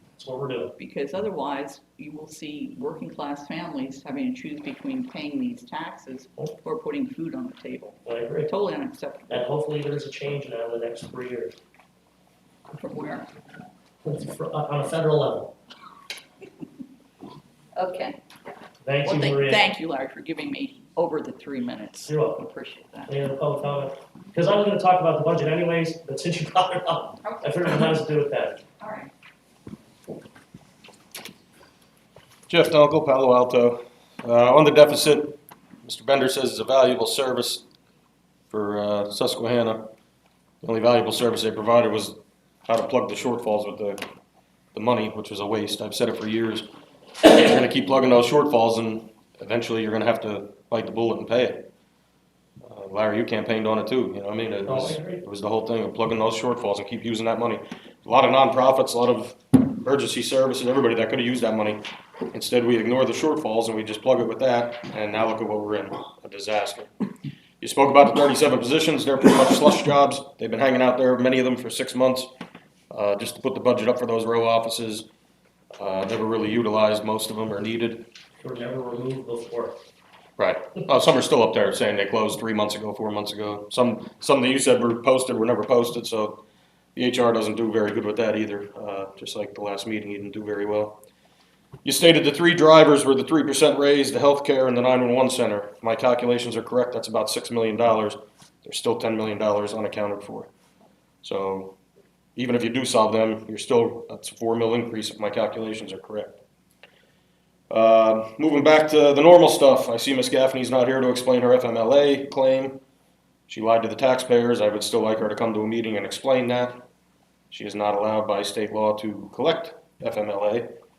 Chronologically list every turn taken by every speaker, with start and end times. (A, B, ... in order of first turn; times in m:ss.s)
0:00.2-0:00.7 A
0:00.8-0:09.5 B
0:08.1-0:08.5 A
0:09.3-0:11.6 A
0:12.7-0:13.4 B
0:14.0-0:15.5 A
0:17.8-0:18.2 B
0:18.8-0:19.6 A
0:19.0-0:23.1 B
0:22.1-0:22.4 A
0:23.1-0:28.6 A
0:27.2-0:28.0 B
0:28.8-0:29.1 B
0:32.5-0:37.6 C
0:38.5-0:39.9 C
0:40.6-0:44.0 C
0:44.7-0:46.7 C
0:47.2-0:51.7 C
0:52.6-1:06.9 C
0:54.7-0:55.2 A
1:07.6-1:12.3 C
1:12.9-1:15.1 C
1:15.8-1:18.1 C
1:18.4-1:19.8 A
1:20.4-1:26.4 C
1:27.0-1:31.0 C
1:31.8-1:40.5 C
1:41.2-1:41.8 C
1:42.4-1:46.4 C
1:47.7-1:52.8 C
1:53.5-1:56.8 C
1:57.5-2:00.7 C